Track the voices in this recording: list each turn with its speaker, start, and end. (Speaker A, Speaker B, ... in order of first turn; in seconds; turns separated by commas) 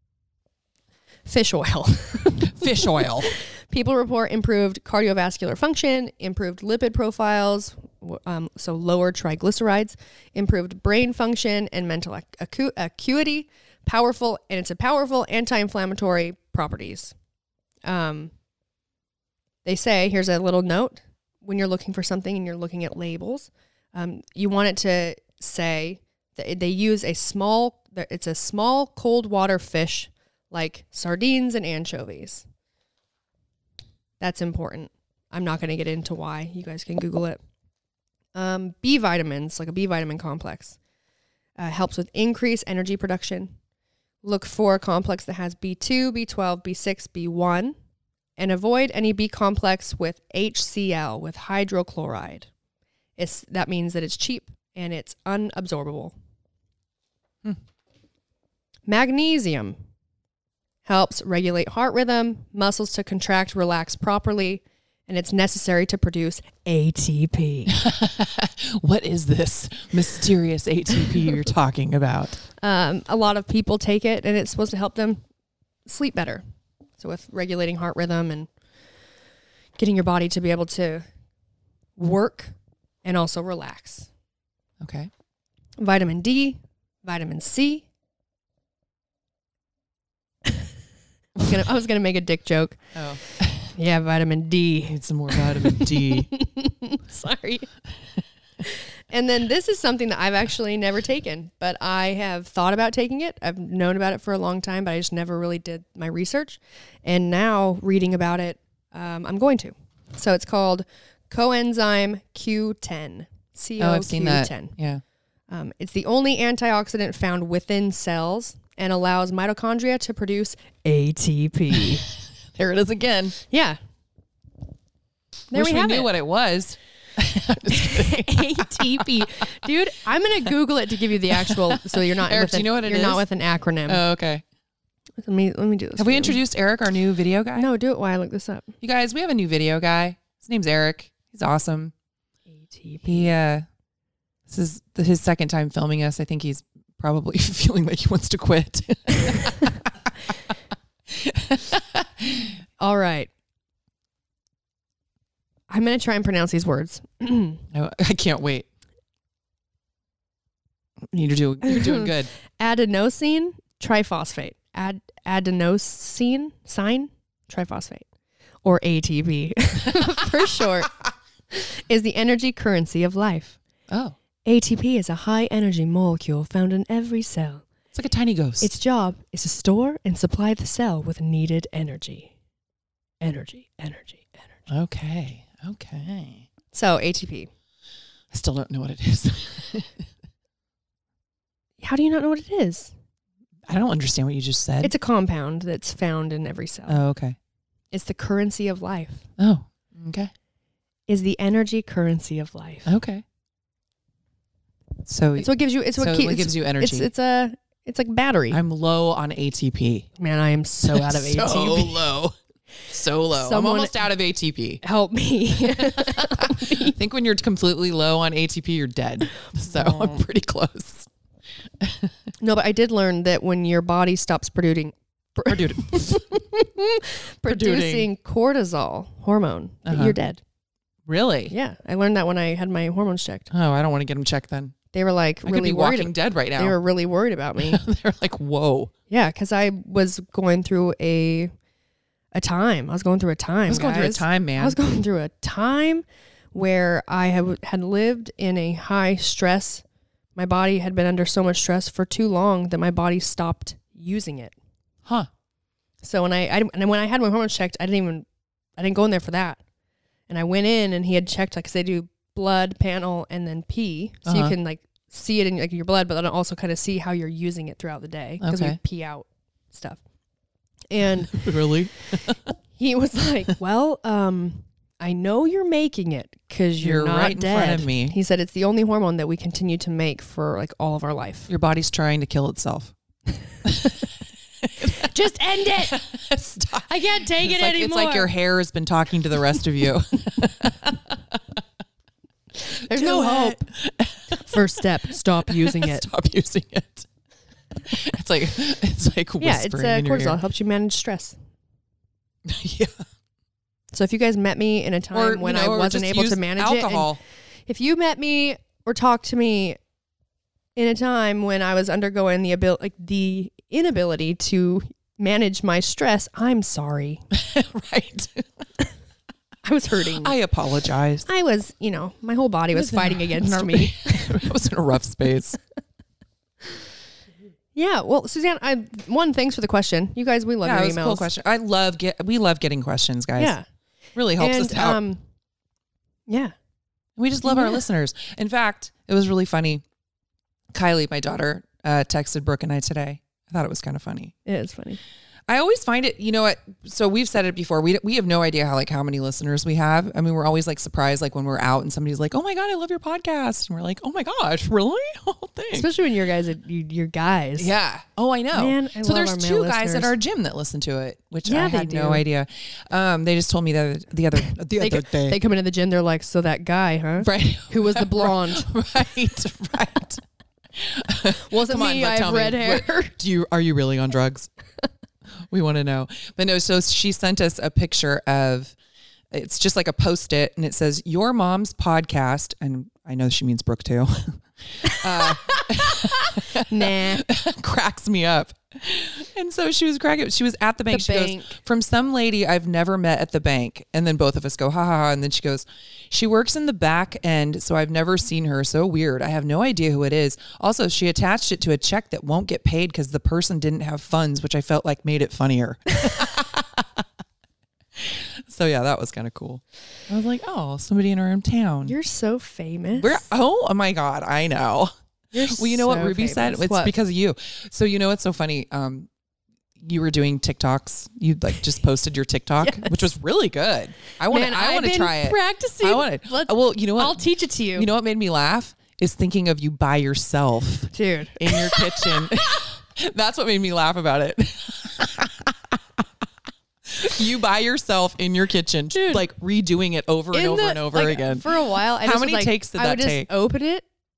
Speaker A: 1.3-17.1, Speaker B: 2.5-3.3, Speaker A: 17.9-18.3, Speaker A: 19.6-32.5, Speaker A: 34.2-37.4, Speaker A: 38.4-40.8, Speaker A: 41.6-43.5, Speaker A: 44.2-47.8, Speaker A: 48.4-52.5, Speaker A: 53.2-56.1, Speaker A: 58.9-59.8, Speaker A: 60.9-67.8, Speaker B: 67.8-72.4, Speaker A: 72.6-75.2, Speaker A: 75.9-76.4, Speaker A: 77.0-78.5, Speaker A: 79.8-81.1, Speaker A: 82.0-84.1, Speaker B: 84.8-85.1, Speaker A: 85.8-87.9, Speaker A: 91.4-97.8, Speaker B: 93.0-93.7, Speaker B: 94.9-96.3, Speaker A: 98.6-114.8, Speaker B: 113.8-115.0, Speaker A: 115.5-122.1, Speaker B: 122.4-123.4, Speaker A: 123.5-123.8, Speaker A: 125.5-126.1, Speaker B: 125.5-129.4, Speaker A: 127.7-134.0, Speaker B: 131.5-133.2, Speaker B: 133.9-134.4, Speaker A: 135.2-136.4, Speaker B: 136.0-137.7, Speaker A: 137.6-138.7, Speaker B: 138.8-141.9, Speaker A: 142.6-143.3, Speaker B: 143.0-143.7, Speaker B: 144.5-149.7, Speaker B: 151.1-152.6, Speaker A: 152.8-153.3, Speaker A: 155.7-157.6, Speaker B: 157.7-158.7, Speaker B: 161.1-162.3, Speaker A: 161.6-168.1, Speaker A: 168.6-171.0, Speaker B: 169.9-170.6, Speaker A: 171.5-173.6, Speaker B: 173.9-174.2, Speaker A: 174.4-177.7, Speaker B: 177.9-178.7, Speaker A: 178.6-182.3, Speaker A: 183.2-184.7, Speaker B: 184.7-186.5, Speaker A: 186.7-187.5, Speaker B: 188.3-190.1, Speaker A: 191.8-192.9, Speaker B: 193.7-194.9, Speaker A: 194.8-197.0, Speaker B: 196.9-197.4, Speaker A: 197.9-199.3, Speaker B: 199.4-200.3, Speaker A: 201.1-202.9, Speaker B: 202.9-203.2, Speaker B: 205.1-207.1, Speaker A: 205.4-208.6, Speaker B: 208.5-210.1, Speaker A: 210.2-212.1, Speaker B: 210.8-212.4, Speaker B: 212.9-214.8, Speaker A: 213.3-214.0, Speaker A: 214.8-217.0, Speaker B: 215.7-221.1, Speaker A: 219.4-220.2, Speaker B: 221.8-222.2, Speaker A: 222.4-230.4, Speaker B: 225.5-226.2, Speaker B: 227.5-228.1, Speaker B: 229.9-230.2, Speaker B: 231.1-231.5, Speaker A: 231.5-233.5, Speaker B: 233.5-234.8, Speaker A: 234.9-237.8, Speaker B: 235.4-236.8, Speaker B: 237.6-238.9, Speaker A: 239.1-241.5, Speaker A: 242.3-249.8, Speaker B: 243.7-244.8, Speaker A: 250.3-254.6, Speaker A: 256.0-258.3, Speaker A: 258.8-259.6, Speaker A: 260.3-270.0, Speaker B: 264.3-264.6, Speaker B: 268.4-268.8, Speaker A: 270.9-272.2, Speaker B: 271.3-272.4, Speaker A: 272.7-281.5, Speaker B: 276.8-278.2, Speaker B: 281.5-282.9, Speaker B: 283.6-284.1, Speaker B: 284.8-285.1, Speaker A: 284.8-286.1, Speaker B: 285.8-291.6, Speaker A: 286.7-288.3, Speaker A: 292.6-293.7, Speaker B: 292.9-294.8, Speaker A: 294.4-296.1, Speaker B: 295.5-297.1, Speaker B: 297.9-300.4, Speaker A: 299.4-301.4, Speaker B: 302.4-303.1, Speaker A: 303.9-307.1, Speaker B: 305.1-307.2, Speaker A: 307.7-309.8, Speaker A: 310.8-317.3, Speaker B: 317.3-318.5, Speaker A: 319.6-320.4, Speaker B: 320.2-321.3, Speaker A: 321.3-324.4, Speaker B: 322.7-325.6, Speaker A: 327.8-331.3, Speaker B: 330.6-333.6, Speaker A: 333.4-333.6, Speaker B: 334.2-335.0, Speaker A: 334.4-335.2, Speaker A: 336.3-336.6, Speaker B: 337.2-339.9, Speaker A: 337.4-337.8, Speaker B: 340.7-344.3, Speaker A: 344.5-345.0, Speaker B: 345.5-355.9, Speaker A: 355.7-357.7, Speaker B: 357.6-365.4, Speaker A: 358.6-360.1, Speaker A: 361.4-362.2, Speaker A: 364.4-368.7, Speaker B: 367.2-374.5, Speaker A: 371.5-373.1, Speaker B: 375.4-378.8, Speaker B: 379.3-407.0, Speaker A: 384.9-387.2, Speaker A: 390.9-391.6, Speaker B: 408.0-411.9, Speaker A: 411.9-413.3, Speaker B: 413.0-414.9, Speaker A: 415.3-416.9, Speaker B: 415.4-419.1, Speaker B: 419.8-427.2, Speaker A: 422.6-423.1, Speaker A: 424.3-427.9, Speaker B: 427.8-436.2, Speaker A: 430.9-432.3, Speaker B: 436.9-443.3, Speaker A: 438.9-439.2, Speaker A: 440.3-443.9